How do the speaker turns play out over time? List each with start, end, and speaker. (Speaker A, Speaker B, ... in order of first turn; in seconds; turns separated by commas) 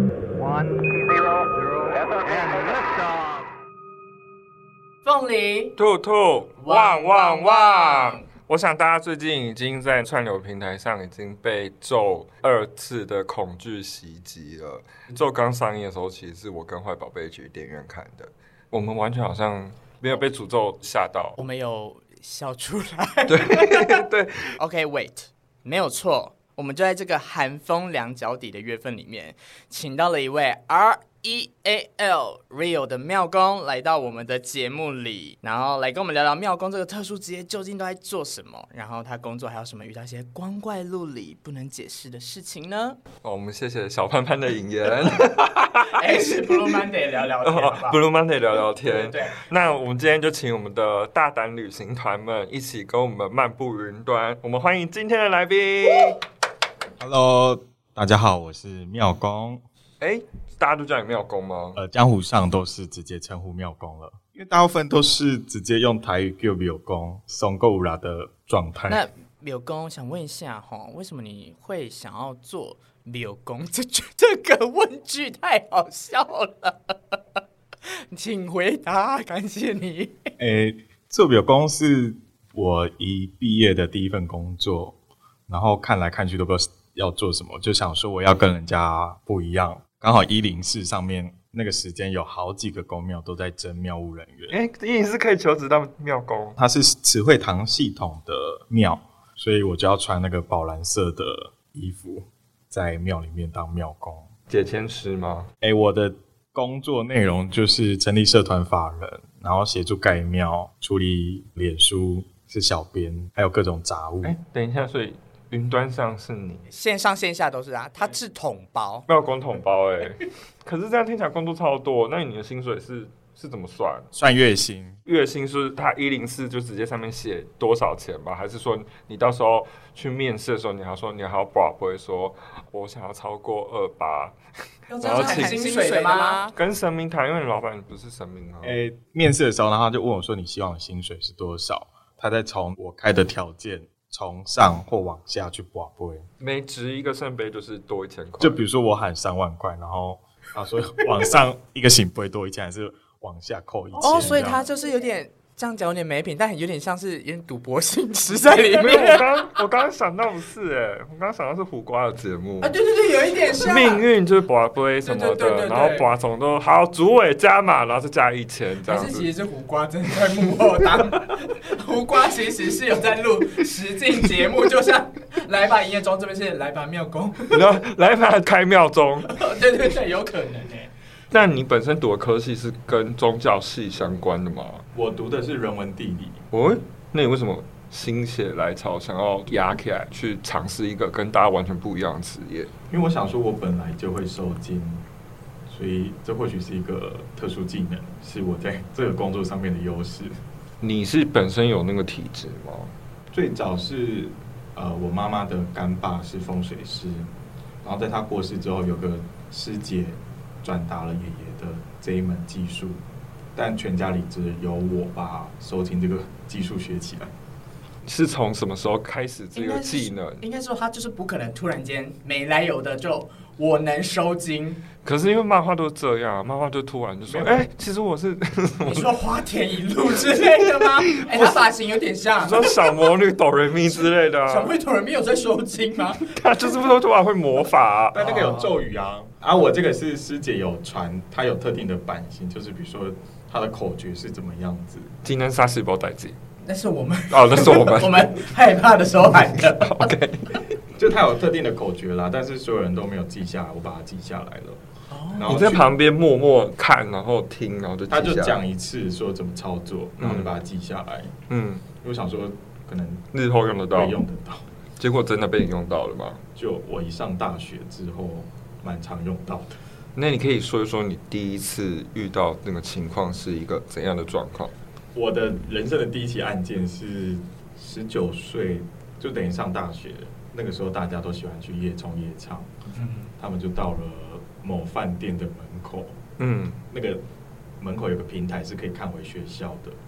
Speaker A: 0.4-3.5, Speaker B: 5.0-5.8, Speaker C: 5.8-21.4, Speaker B: 6.6-8.2, Speaker B: 21.4-24.1, Speaker C: 23.3-24.6, Speaker B: 24.6-43.0, Speaker C: 43.2-46.9, Speaker B: 45.8-48.0, Speaker C: 47.4-56.2, Speaker B: 48.5-49.5, Speaker D: 57.0-59.6, Speaker C: 60.0-61.8, Speaker D: 61.8-69.0, Speaker B: 68.9-80.3, Speaker D: 80.4-85.0, Speaker D: 85.5-94.6, Speaker C: 94.5-96.6, Speaker D: 96.6-104.3, Speaker C: 104.5-105.5, Speaker D: 105.6-114.3, Speaker C: 114.2-116.6, Speaker B: 116.7-119.0, Speaker C: 119.1-124.1, Speaker D: 124.1-125.0, Speaker C: 125.1-134.4, Speaker B: 134.9-136.6, Speaker C: 135.0-135.9, Speaker C: 136.5-138.8, Speaker D: 138.6-146.3, Speaker C: 146.4-148.6, Speaker D: 148.4-154.7, Speaker B: 154.0-159.6, Speaker C: 158.7-169.3, Speaker B: 162.6-164.1, Speaker B: 165.0-166.1, Speaker B: 168.9-177.7, Speaker C: 177.5-179.4, Speaker B: 179.2-180.9, Speaker C: 181.3-184.8, Speaker D: 184.9-186.5, Speaker C: 186.5-192.7, Speaker D: 192.9-195.0, Speaker D: 195.7-200.4, Speaker C: 200.8-202.9, Speaker D: 203.3-207.3, Speaker D: 207.8-213.0, Speaker D: 213.6-217.3, Speaker C: 218.1-220.4, Speaker B: 219.6-224.8, Speaker C: 225.0-229.2, Speaker D: 227.3-227.7, Speaker B: 228.9-233.1, Speaker C: 230.3-231.7, Speaker C: 232.4-234.8, Speaker B: 233.9-236.4, Speaker C: 236.2-238.2, Speaker D: 238.1-245.2, Speaker B: 238.2-238.7, Speaker C: 245.2-246.4, Speaker B: 246.6-250.1, Speaker C: 247.3-248.4, Speaker C: 249.6-250.4, Speaker D: 251.0-254.8, Speaker B: 255.1-255.6, Speaker D: 255.3-255.9, Speaker C: 255.4-258.6, Speaker D: 258.1-261.4, Speaker C: 260.2-260.5, Speaker C: 261.5-261.8, Speaker D: 262.0-263.3, Speaker C: 263.3-264.2, Speaker D: 263.9-264.7, Speaker C: 265.0-266.4, Speaker D: 266.6-269.8, Speaker C: 270.2-274.7, Speaker D: 275.1-282.7, Speaker B: 283.0-283.3, Speaker D: 283.4-286.2, Speaker C: 286.4-286.8, Speaker D: 286.8-287.2, Speaker D: 287.8-290.0